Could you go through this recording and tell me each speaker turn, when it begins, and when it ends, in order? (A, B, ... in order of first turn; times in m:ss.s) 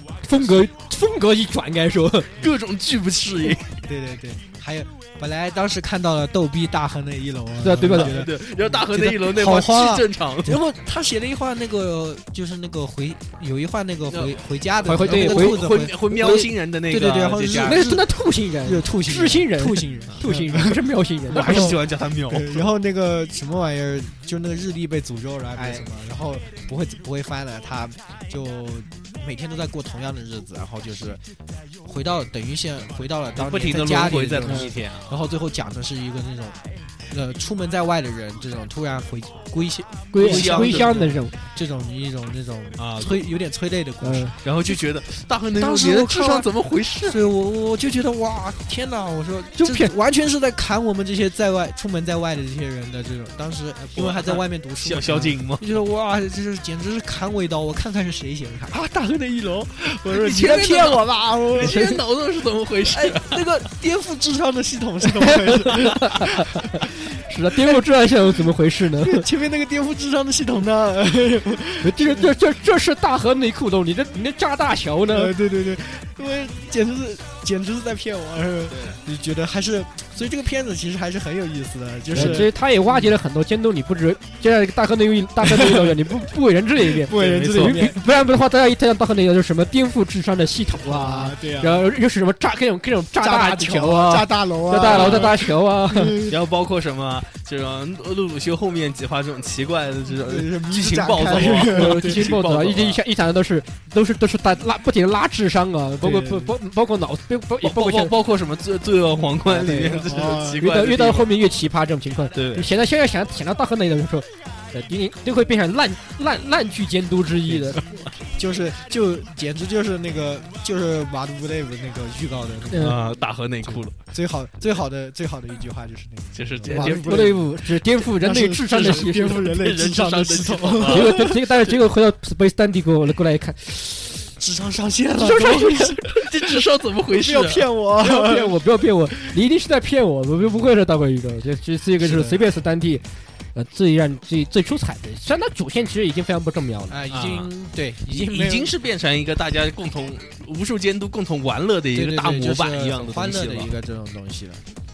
0:00.2-0:02.3 A
0:02.4-0:03.8 B
0:03.8-0:31.2 C
0:07.6-0:08.2 A
0:07.9-0:10.6 B
0:14.1-0:14.4 B
0:14.8-0:16.5 A
0:15.0-0:17.9 B
0:17.6-0:21.7 A
0:21.3-0:22.7 B
0:31.8-0:44.9 C
0:33.4-0:35.2 B
0:40.1-0:41.4 A
0:40.2-0:40.9 B
0:42.8-0:43.2 B
0:44.0-0:44.4 A
0:44.4-0:47.2 B
0:45.5-0:46.5 C
0:47.0-1:02.0 C
0:49.6-0:49.9 A
0:54.0-0:55.7 B
1:00.1-1:03.5 B
1:01.6-1:02.0 A
1:02.9-1:06.3 C
1:05.2-1:06.3 A
1:07.2-1:09.3 A
1:07.5-1:07.8 C
1:09.0-1:12.3 C
1:11.8-1:15.3 A
1:15.1-1:23.0 C
1:18.7-1:19.0 B
1:22.2-1:22.5 B
1:22.2-1:36.2 A
1:25.4-1:26.0 C
1:26.8-1:28.0 C
1:27.2-1:27.8 B
1:30.8-1:31.9 C
1:33.2-1:36.4 C
1:34.8-1:35.3 B
1:36.3-1:43.0 B
1:40.1-1:42.3 C
1:41.7-1:48.1 A
1:46.0-1:46.5 C
1:47.6-1:51.3 B
1:49.5-1:50.1 A
1:49.6-1:50.6 C
1:50.6-1:57.9 A
1:52.4-1:52.7 B
1:57.5-1:57.8 C
1:58.3-2:03.0 C
2:02.7-2:03.0 A
2:02.8-2:04.0 B
2:03.6-2:11.4 C
2:06.4-2:07.4 B
2:06.7-2:09.4 A
2:08.7-2:11.3 B
2:10.9-2:14.1 A
2:14.2-2:18.5 C
2:15.2-2:16.0 A
2:16.1-2:17.7 B
2:18.0-2:27.0 A
2:22.0-2:22.4 C
2:26.9-2:28.7 C
2:27.1-2:27.5 B
2:28.1-2:33.7 B
2:31.9-2:34.6 C